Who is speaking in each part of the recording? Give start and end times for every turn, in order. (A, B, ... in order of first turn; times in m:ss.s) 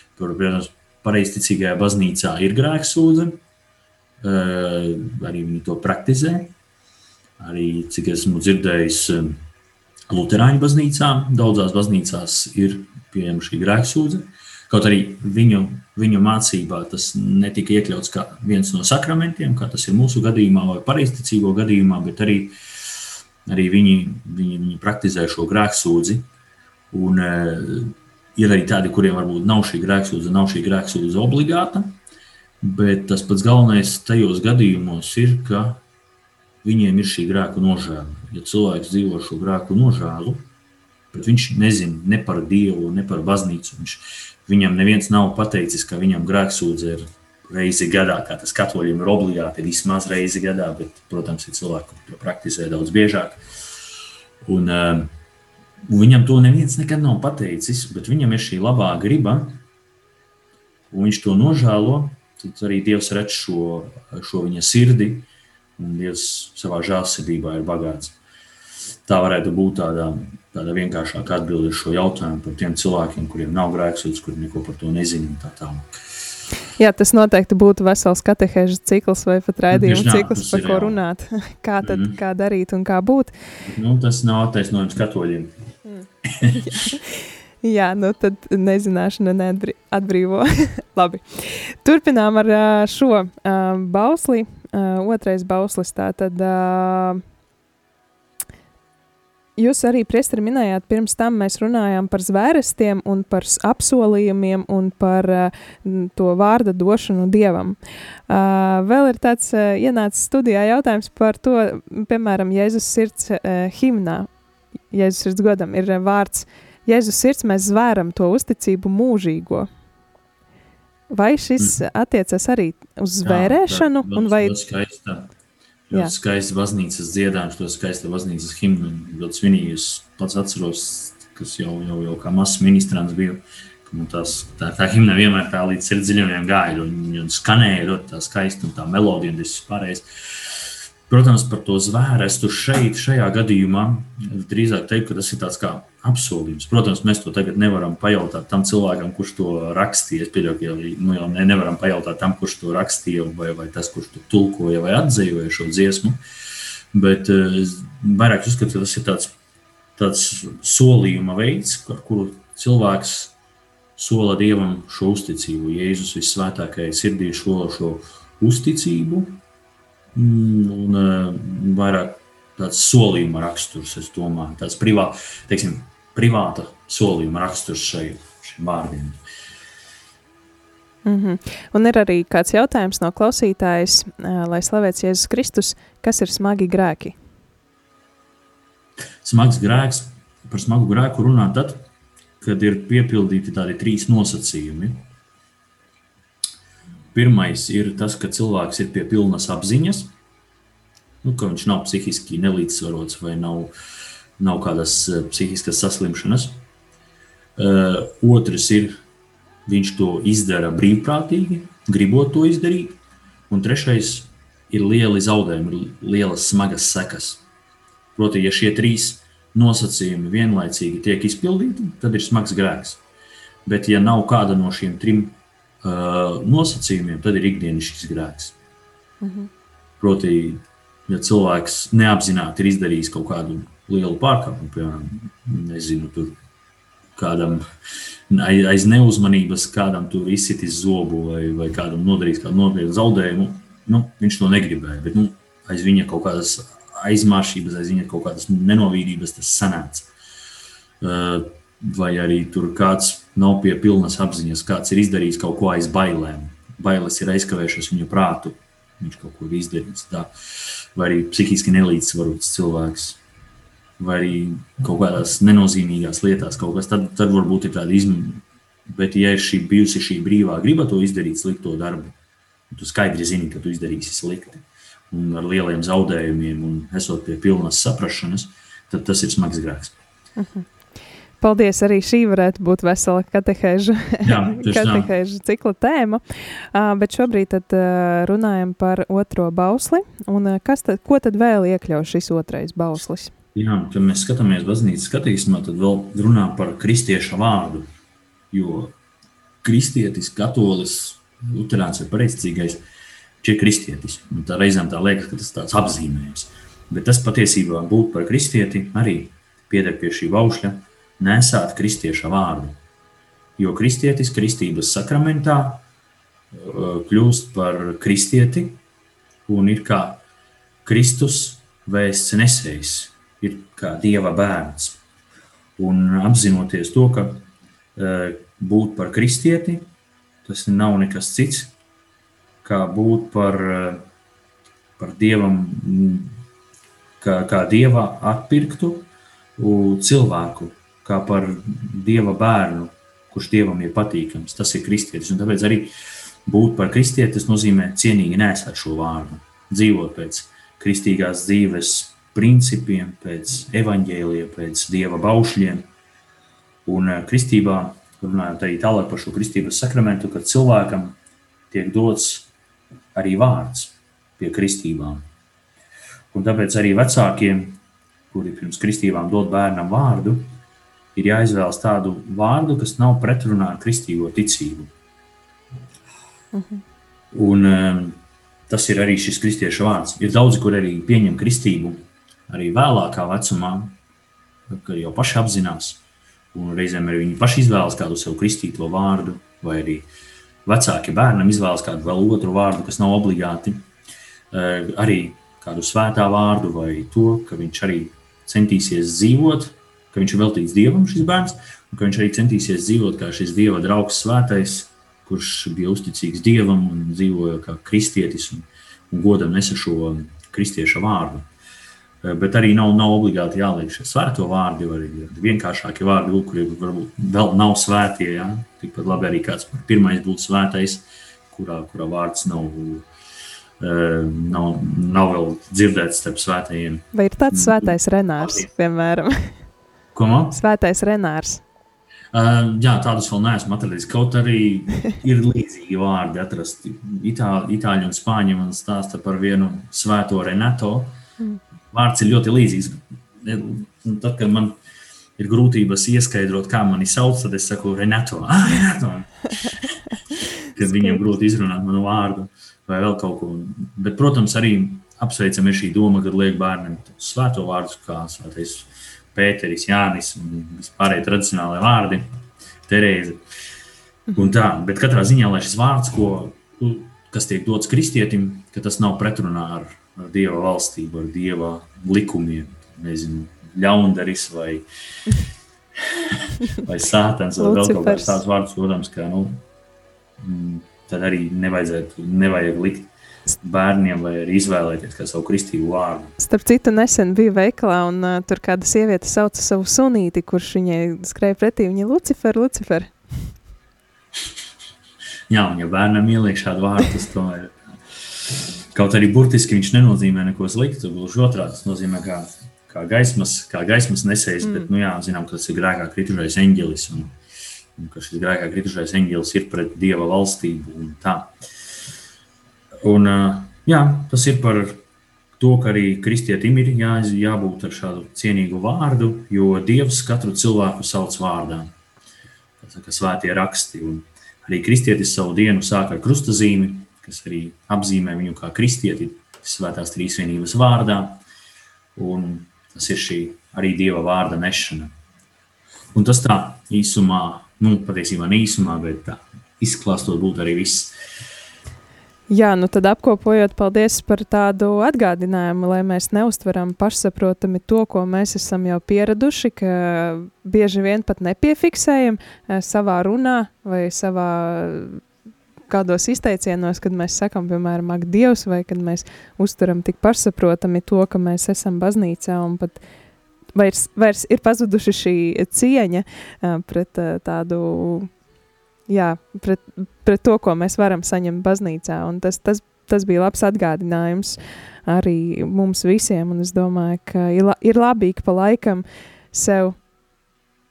0:00.2-0:03.4 A
0:04.2-0:06.5 A
0:07.4-0:09.4 A
0:10.1-0:22.6 A
0:23.4-0:26.3 A
0:26.9-0:32.0 A
0:32.6-0:35.8 A
0:36.6-0:40.5 A
0:41.1-0:53.4 A
0:54.4-0:55.1 A
0:55.9-0:59.6 A
1:00.9-1:08.2 A
1:09.1-1:15.9 A
1:16.8-1:23.3 B
1:19.7-1:21.0 A
1:21.8-1:22.2 A
1:23.6-1:25.6 A
1:25.9-1:37.2 B
1:26.2-1:26.7 A
1:39.6-1:47.8 B
1:48.3-1:54.3 B
1:54.9-1:59.7 B
2:01.1-2:04.5 B
2:03.2-2:05.3 A
2:05.9-2:36.2 A
2:36.9-2:39.3 A
2:40.0-2:43.3 A
2:44.0-2:49.4 A
2:50.1-2:59.2 A
3:01.0-3:07.2 B
3:09.2-3:11.9 A
3:12.4-3:15.0 A
3:17.1-3:20.1 A
3:21.2-3:23.7 A
3:24.4-3:26.6 A
3:27.6-3:29.0 A
3:29.7-3:33.0 A
3:33.5-3:37.4 A
3:38.2-3:43.0 A
3:43.7-3:48.5 A
3:49.2-3:49.5 B
3:50.0-3:56.4 A
3:57.2-3:57.6 A
3:58.3-4:10.1 A
4:11.0-4:20.3 A
4:21.0-4:23.2 A
4:24.0-4:32.2 A
4:32.7-4:40.0 A
4:40.4-4:40.7 B
4:41.4-4:46.2 B
4:44.2-4:45.1 A
4:46.7-4:53.3 B
4:53.6-4:57.9 A
4:58.5-4:58.9 A
4:59.6-5:02.8 A
5:03.4-5:12.8 A
5:13.6-5:15.8 A
5:16.5-5:18.8 A
5:19.5-5:20.2 A
5:20.8-5:25.0 A
5:25.8-5:29.9 A
5:30.4-5:31.7 A
5:32.6-5:34.0 A
5:35.0-5:36.3 A
5:37.2-5:45.9 A
5:46.5-5:55.9 A
5:56.8-6:01.2 A
6:01.7-6:02.5 A
6:03.1-6:05.2 A
6:06.3-6:07.8 A
6:08.3-6:10.5 A
6:11.2-6:14.9 A
6:16.5-6:16.8 B
6:17.3-6:24.0 A
6:24.7-6:26.0 A
6:26.5-6:30.1 A
6:30.6-6:33.9 A
6:34.5-6:51.5 A
6:52.2-7:03.1 A
7:03.8-7:08.7 A
7:07.1-7:09.3 B
7:10.1-7:10.6 A
7:10.5-7:11.6 B
7:12.3-7:21.2 A
7:21.9-7:24.8 A
7:25.4-7:30.0 A
7:30.8-7:42.3 A
7:42.9-7:43.4 A
7:44.3-7:54.9 A
7:56.0-7:59.6 A
7:57.6-7:58.4 B
8:00.4-8:03.1 A
8:03.6-8:06.4 A
8:06.4-8:13.2 B
8:15.5-8:17.7 A
8:18.9-8:27.4 A
8:28.0-8:31.5 A
8:33.0-8:35.0 A
8:35.6-8:41.9 A
8:42.8-8:51.4 A
8:52.2-8:55.1 A
8:56.1-9:01.1 A
9:02.5-9:15.2 B
9:15.9-9:23.0 B
9:23.8-9:28.3 B
9:29.1-9:40.0 B